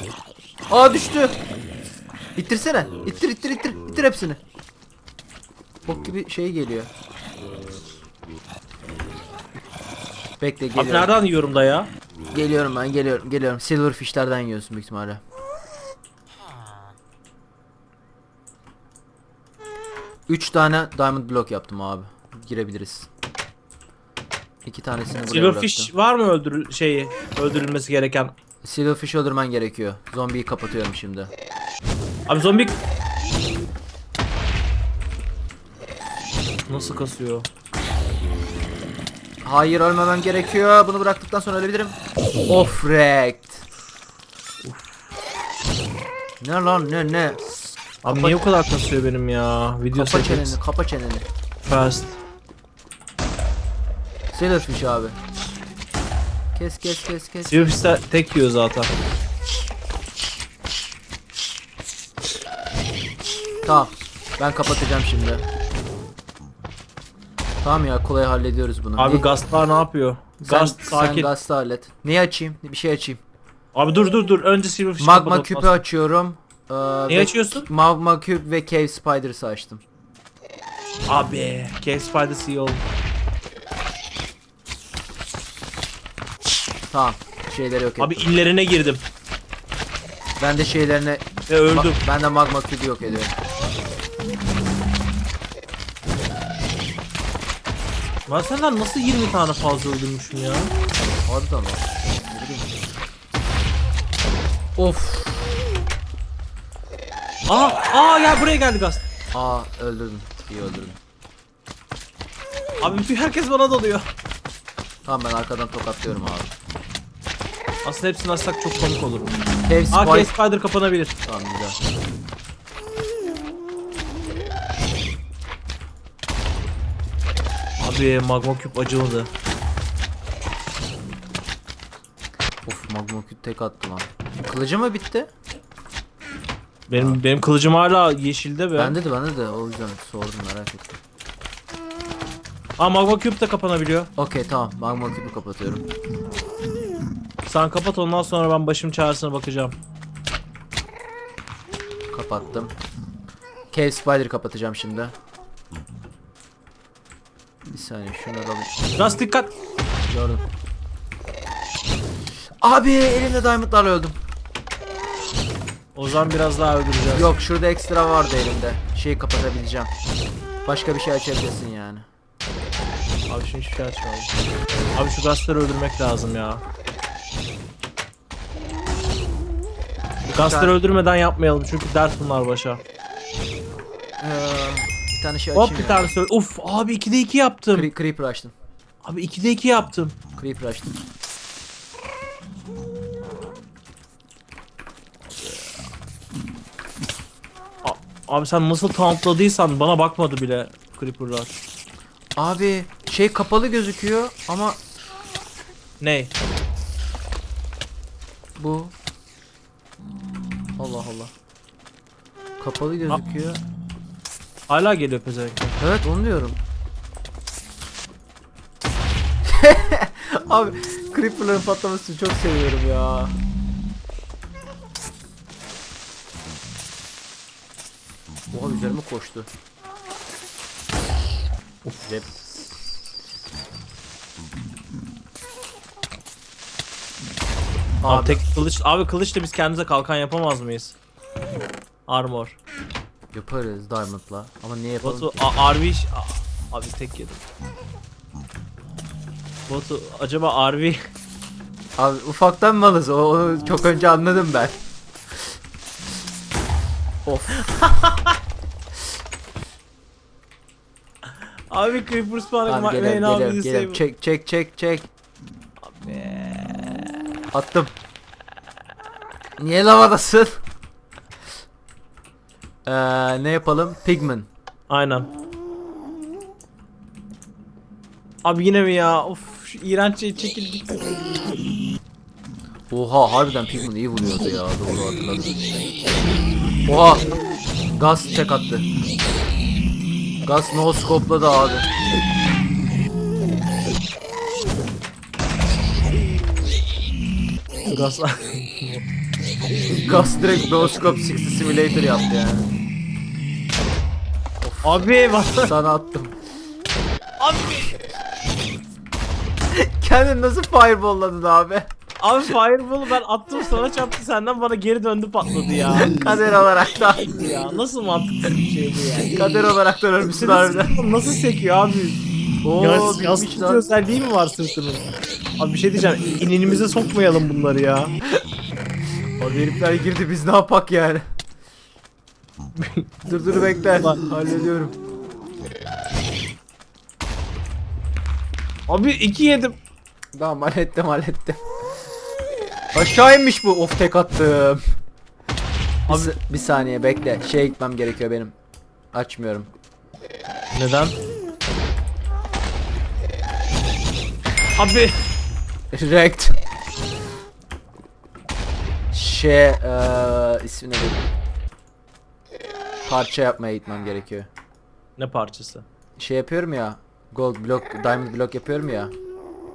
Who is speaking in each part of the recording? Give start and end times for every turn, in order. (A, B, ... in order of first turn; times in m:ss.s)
0:00.7-0:01.4 A
0:02.4-0:04.4 A
0:05.9-0:06.9 A
0:10.4-0:11.1 A
0:10.8-0:11.9 B
0:12.3-0:15.2 A
0:20.3-0:23.1 A
0:24.6-0:25.9 A
0:25.3-0:28.3 B
0:28.6-0:31.3 A
0:32.3-0:32.8 B
0:36.7-0:37.5 B
0:39.4-0:42.0 A
0:42.5-0:43.6 A
0:44.6-0:45.1 B
0:46.4-0:48.4 A
0:48.0-0:50.6 B
0:50.0-0:51.3 A
0:51.6-0:52.2 B
0:54.3-0:55.2 A
0:56.6-0:57.8 A
0:57.5-0:58.9 B
1:03.6-1:05.5 A
1:07.6-1:09.3 A
1:09.0-1:11.3 B
1:10.4-1:13.2 A
1:13.7-1:15.8 B
1:15.0-1:19.8 A
1:17.1-1:17.7 B
1:21.1-1:22.8 B
1:26.9-1:28.4 A
1:28.0-1:29.0 B
1:30.4-1:33.4 A
1:31.5-1:32.0 B
1:38.3-1:40.7 B
1:41.3-1:42.7 A
1:44.8-1:45.5 A
1:47.5-1:49.0 B
1:49.3-1:51.0 A
1:52.8-1:54.1 B
1:55.1-1:56.5 A
1:57.8-1:59.4 B
1:59.7-2:00.3 A
1:59.9-2:01.2 B
2:01.3-2:01.8 A
2:07.8-2:09.3 B
2:12.7-2:15.3 A
2:16.9-2:19.0 B
2:16.9-2:17.2 A
2:18.8-2:21.0 A
2:22.8-2:24.1 B
2:24.2-2:25.8 A
2:27.5-2:29.8 B
2:32.1-2:32.7 A
2:33.7-2:35.2 A
2:37.7-2:38.7 A
2:39.0-2:39.5 B
2:40.1-2:40.4 A
2:42.6-2:44.2 A
2:46.0-2:47.3 B
2:47.1-2:49.9 A
2:50.6-2:52.1 A
2:53.3-2:54.3 B
2:55.0-2:56.6 B
3:00.3-3:00.8 A
3:00.3-3:02.8 B
3:04.2-3:06.1 A
3:05.6-3:07.9 B
3:07.7-3:08.5 A
3:09.0-3:10.2 B
3:10.4-3:10.9 A
3:17.8-3:21.5 B
3:22.4-3:24.8 A
3:26.0-3:26.3 B
3:28.6-3:28.9 A
3:30.8-3:31.3 A
3:32.6-3:33.6 A
3:34.7-3:35.8 B
3:35.8-3:36.6 A
3:39.5-3:43.4 A
3:48.5-3:49.5 A
3:51.8-3:52.1 B
3:52.1-3:52.4 A
3:58.0-3:58.4 A
3:58.1-4:01.0 B
4:02.1-4:02.6 B
4:03.3-4:05.5 A
4:05.0-4:07.4 B
4:09.7-4:11.1 B
4:12.0-4:14.8 A
4:17.2-4:18.1 A
4:17.7-4:18.3 B
4:21.2-4:24.0 B
4:22.7-4:25.1 A
4:25.8-4:27.1 B
4:27.5-4:27.9 A
4:29.6-4:30.6 A
4:32.9-4:34.5 A
4:34.9-4:35.3 B
4:38.4-4:41.2 B
4:42.9-4:45.6 A
4:46.9-4:47.3 A
4:48.0-4:48.9 A
4:50.4-4:51.9 A
4:57.8-4:59.0 B
5:00.0-5:02.7 A
5:04.6-5:06.4 A
5:04.8-5:05.7 B
5:07.4-5:08.0 B
5:09.7-5:11.9 A
5:12.2-5:16.2 B
5:16.0-5:17.3 A
5:17.3-5:19.4 B
5:19.4-5:21.0 A
5:20.3-5:22.2 B
5:22.6-5:23.8 A
5:22.8-5:25.0 B
5:25.6-5:28.2 B
5:29.4-5:31.2 A
5:32.7-5:33.1 B
5:33.2-5:35.0 A
5:38.9-5:39.8 B
5:40.3-5:41.6 A
5:42.9-5:44.8 A
5:46.1-5:46.3 B
5:46.1-5:48.5 A
5:49.1-5:49.7 A
5:50.7-5:51.2 B
5:54.8-5:55.2 B
5:55.9-5:56.6 A
5:59.1-6:01.2 A
6:03.1-6:04.5 A
6:05.2-6:05.9 B
6:06.2-6:09.1 A